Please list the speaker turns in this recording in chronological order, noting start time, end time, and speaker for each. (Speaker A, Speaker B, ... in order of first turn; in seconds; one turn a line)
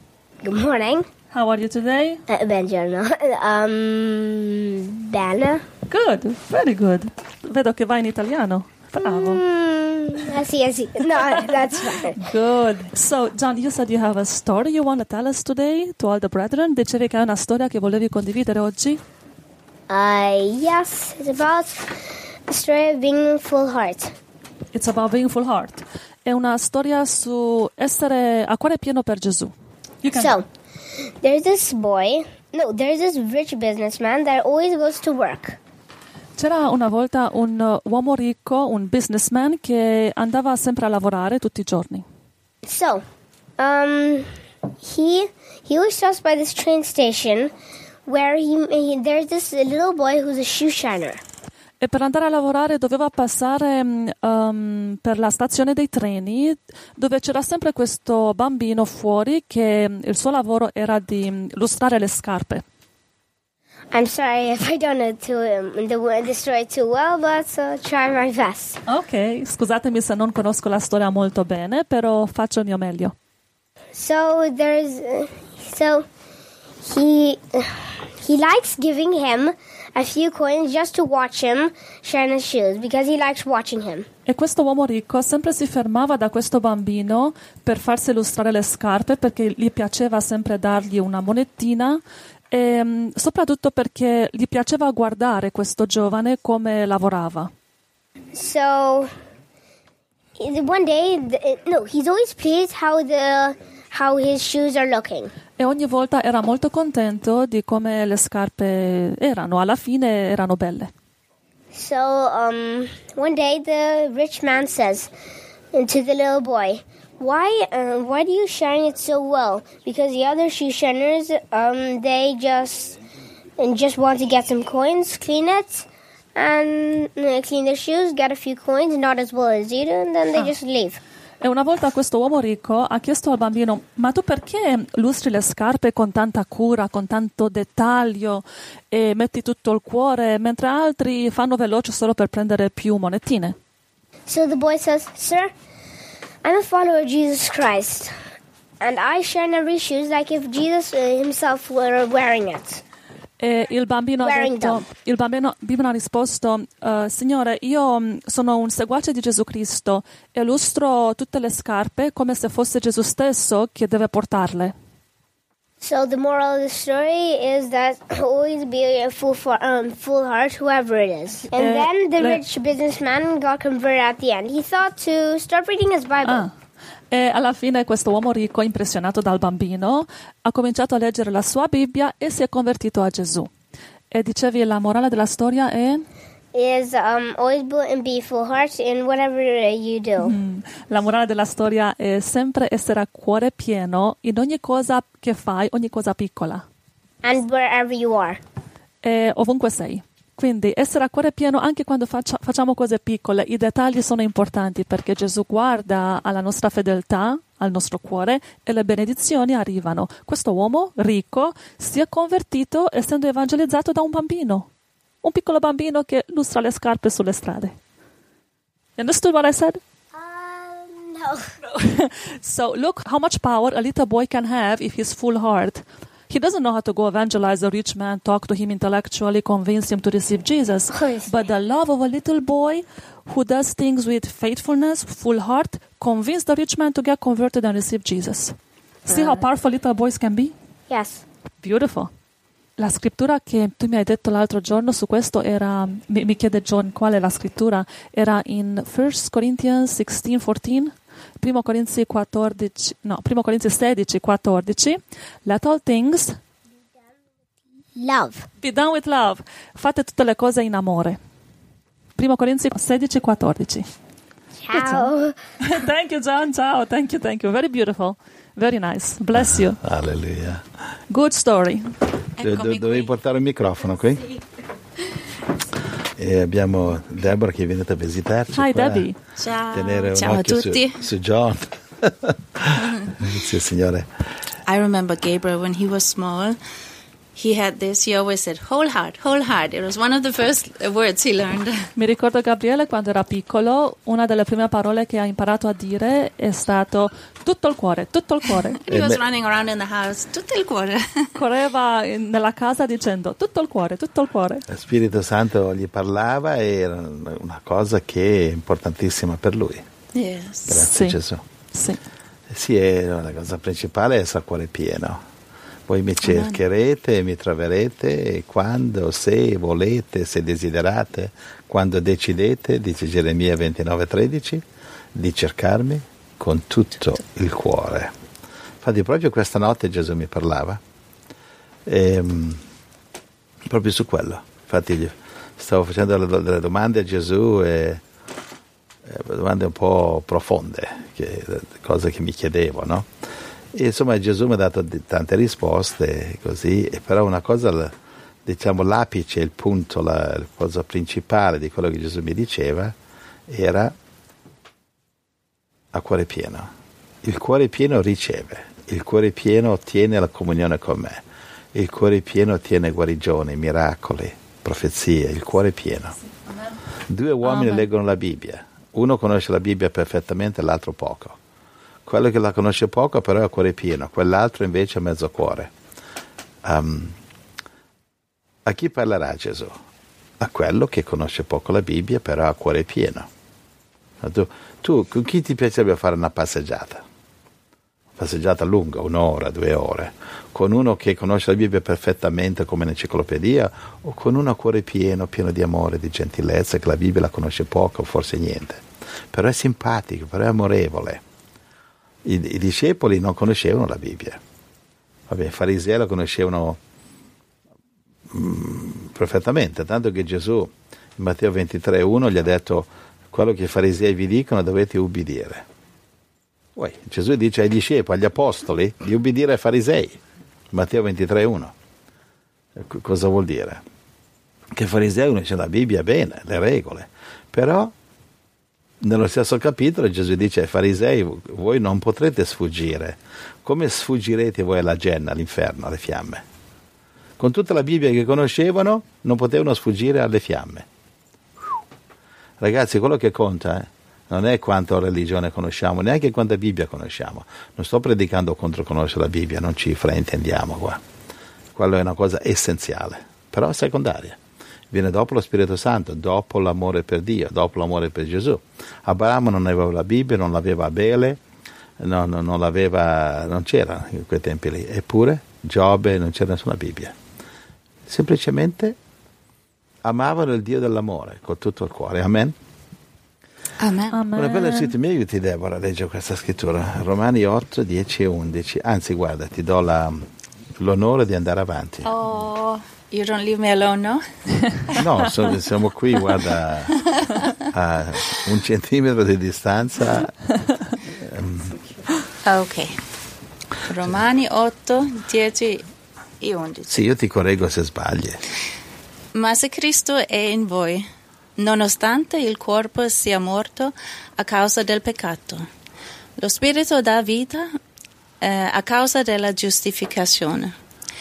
Speaker A: 0.4-1.1
Speaker B: 1.3-2.2
Speaker A: 2.3-5.6
Speaker B: 5.9-9.4
Speaker A: 8.9-12.2
Speaker B: 11.2-11.6
Speaker B: 12.1-19.0
Speaker A: 19.9-21.9
Speaker A: 22.5-24.1
Speaker B: 24.7-30.4
Speaker A: 30.1-30.4
Speaker A: 31.2-35.6
Speaker B: 36.4-42.0
Speaker A: 42.6-43.0
Speaker A: 43.6-44.3
Speaker A: 44.8-47.5
Speaker A: 48.0-51.2
Speaker B: 51.8-62.6
Speaker A: 63.9-68.8
Speaker B: 68.9-73.1
Speaker A: 73.9-76.0
Speaker A: 76.8-77.7
Speaker A: 78.2-84.0
Speaker B: 84.2-97.5
Speaker A: 98.3-99.1
Speaker A: 100.4-105.3
Speaker B: 105.6-110.9
Speaker A: 111.7-115.1
Speaker A: 115.7-123.0
Speaker A: 123.6-131.0
Speaker B: 131.4-143.5
Speaker A: 144.3-145.5
Speaker A: 146.4-148.1
Speaker A: 148.8-152.8
Speaker B: 153.4-164.7
Speaker A: 154.2-154.8
Speaker A: 165.8-176.5
Speaker B: 171.5-172.4
Speaker B: 176.2-176.5
Speaker B: 177.1-183.5
Speaker B: 184.1-186.0
Speaker A: 186.5-190.3
Speaker B: 190.2-196.6
Speaker A: 197.2-198.4
Speaker B: 199.0-214.7
Speaker B: 215.2-217.7
Speaker B: 219.0-219.8
Speaker A: 220.1-221.4
Speaker B: 221.7-238.5
Speaker A: 230.9-231.4
Speaker B: 239.1-240.5
Speaker A: 240.9-241.2
Speaker B: 241.6-242.1
Speaker B: 242.8-256.4
Speaker A: 258.0-258.4
Speaker B: 258.6-261.2
Speaker B: 262.1-263.8
Speaker A: 264.6-265.3
Speaker B: 264.7-265.1
Speaker B: 265.6-269.8
Speaker C: 269.3-270.6
Speaker B: 271.1-271.8
Speaker D: 272.4-273.1
Speaker C: 272.4-274.4
Speaker C: 276.2-279.1
Speaker B: 278.5-279.2
Speaker D: 279.4-281.0
Speaker C: 279.7-284.1
Speaker D: 282.8-283.1
Speaker D: 284.6-286.6
Speaker D: 287.3-291.8
Speaker B: 291.9-299.0
Speaker D: 298.9-301.1
Speaker C: 298.9-299.2
Speaker B: 301.3-304.6
Speaker C: 304.7-309.8
Speaker D: 310.1-310.9
Speaker C: 310.7-311.4
Speaker B: 310.9-311.2
Speaker B: 311.7-312.0
Speaker C: 312.5-315.2
Speaker C: 315.9-324.6
Speaker D: 316.2-316.6
Speaker C: 325.1-328.1
Speaker C: 328.8-330.8
Speaker C: 331.9-332.6
Speaker C: 333.7-338.0
Speaker C: 339.0-343.1
Speaker C: 343.7-347.9
Speaker C: 348.4-352.9
Speaker C: 353.5-353.9
Speaker C: 355.9-356.7
Speaker C: 357.2-361.2
Speaker C: 361.7-366.1
Speaker C: 367.1-371.4
Speaker B: 367.4-367.9
Speaker C: 372.1-375.7
Speaker C: 376.6-377.1
Speaker C: 378.6-379.7
Speaker C: 380.4-383.3
Speaker C: 384.2-387.0
Speaker C: 388.2-401.2
Speaker C: 402.2-404.4
Speaker C: 405.3-406.8
Speaker C: 408.3-415.6
Speaker C: 416.8-420.2
Speaker C: 420.7-421.7
Speaker C: 422.8-423.8
Speaker C: 424.7-427.9
Speaker C: 429.0-436.4
Speaker C: 437.4-440.9
Speaker C: 442.6-451.0
Speaker C: 451.7-454.4
Speaker C: 454.9-461.4
Speaker C: 462.0-467.1
Speaker C: 468.1-469.0
Speaker C: 470.0-472.5
Speaker D: 473.8-474.2
Speaker B: 474.1-474.9
Speaker C: 474.3-480.2
Speaker C: 480.8-482.1
Speaker D: 482.0-485.0
Speaker C: 484.9-487.0
Speaker D: 487.2-487.5
Speaker C: 487.7-490.4
Speaker C: 491.1-491.8
Speaker D: 492.4-493.0
Speaker D: 493.9-495.8
Speaker D: 496.4-496.9
Speaker C: 496.9-498.4
Speaker D: 499.3-505.6
Speaker D: 506.4-507.7
Speaker D: 508.4-510.7